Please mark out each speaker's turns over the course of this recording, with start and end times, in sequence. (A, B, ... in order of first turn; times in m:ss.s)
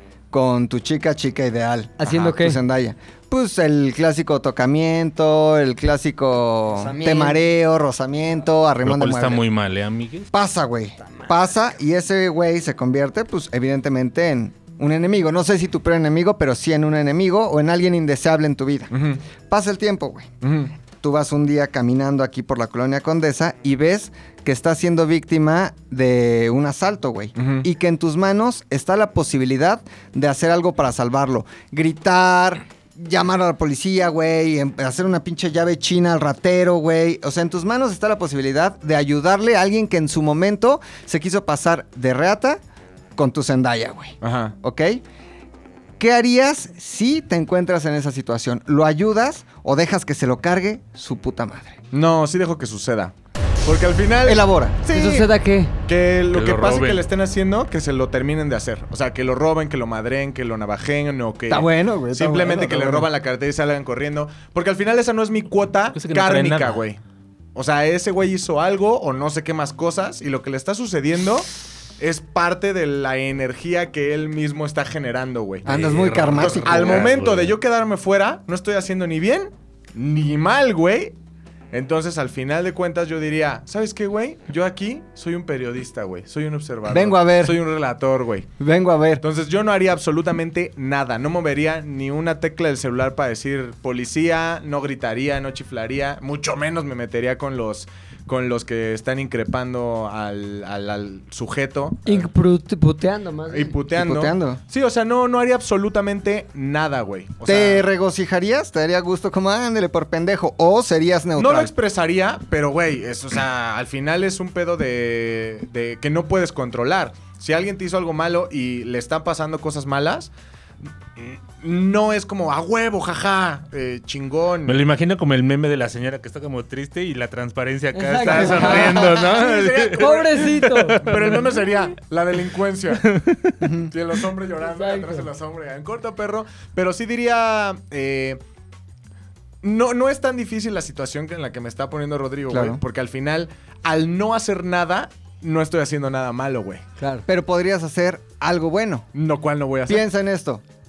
0:00.3-0:09.4 A
0:02.0-0:02.6 B
0:06.7-0:07.4 B
0:08.8-0:10.3 C
0:10.3-0:18.9 A
0:11.0-0:11.4 B
0:18.9-0:19.2 D
0:19.5-0:20.3 A
0:20.4-0:20.7 D
0:21.0-0:42.6 A
0:27.4-0:27.7 D
0:43.2-0:45.0 A
0:44.2-0:44.5 D
0:46.0-0:51.8 A
0:51.9-0:55.3 D
0:54.2-0:54.8 A
0:54.9-0:55.7 B
0:55.8-1:07.0 D
0:56.3-0:57.0 C
1:01.5-1:03.1 A
1:05.9-1:06.8 C
1:07.5-1:15.7 D
1:15.6-1:17.1 A
1:15.7-1:17.6 C
1:16.4-1:21.1 D
1:21.7-1:28.5 D
1:26.9-1:27.6 A
1:28.6-1:29.2 A
1:29.2-1:42.3 D
1:42.0-1:43.8 B
1:43.5-1:47.8 D
1:43.9-1:44.6 A
1:47.4-1:51.7 A
1:51.4-2:00.3 D
2:01.2-2:04.8 D
2:04.6-2:11.6 C
2:07.9-2:09.1 B
2:08.3-2:13.2 D
2:09.9-2:11.0 B
2:13.0-2:13.6 C
2:13.6-2:13.9 A
2:13.9-2:18.4 D
2:14.6-2:15.3 B
2:19.6-2:26.8 D
2:22.5-2:22.8 A
2:27.0-2:27.2 B
2:27.3-2:29.1 A
2:29.1-2:30.0 D
2:29.8-2:30.6 A